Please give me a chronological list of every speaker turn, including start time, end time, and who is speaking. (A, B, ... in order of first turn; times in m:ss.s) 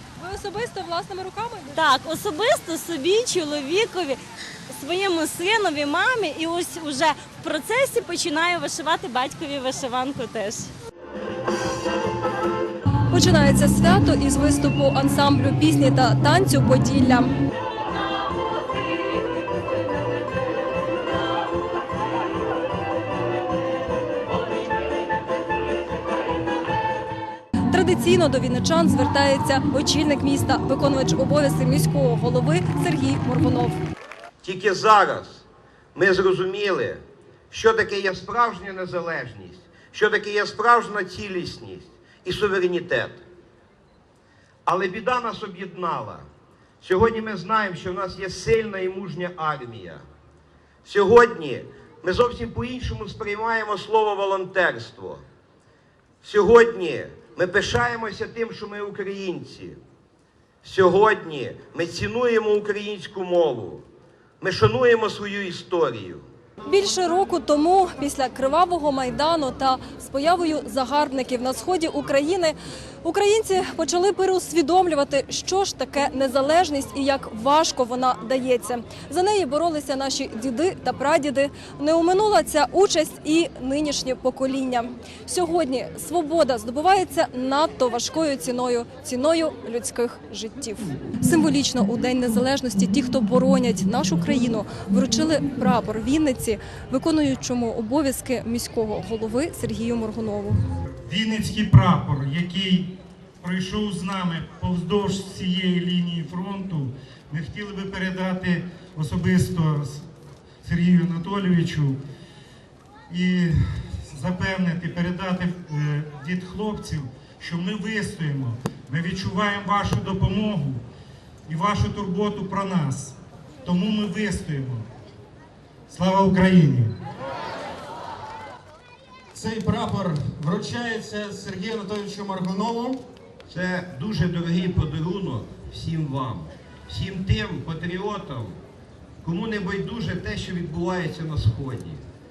0:00.2-0:01.8 A
0:01.7-0:10.7 B
0:13.1-0:17.3 A
0:27.7-0:33.8 A
0:34.4-0:35.4 C
0:36.0-0:43.2 C
0:44.7-0:46.2 C
0:46.8-0:50.0 C
0:50.8-0:55.2 C
0:56.2-0:59.8 C
1:00.6-1:03.8 C
1:04.4-1:06.2 C
1:06.7-1:40.6 A
1:41.1-1:50.1 D
1:50.6-1:52.0 D
1:53.1-2:00.8 D
2:01.5-2:04.9 D
2:05.9-2:07.0 D
2:09.6-2:10.2 E
2:10.6-2:11.0 D
2:11.2-2:13.0 E
2:13.5-2:18.6 C
2:19.2-2:22.0 C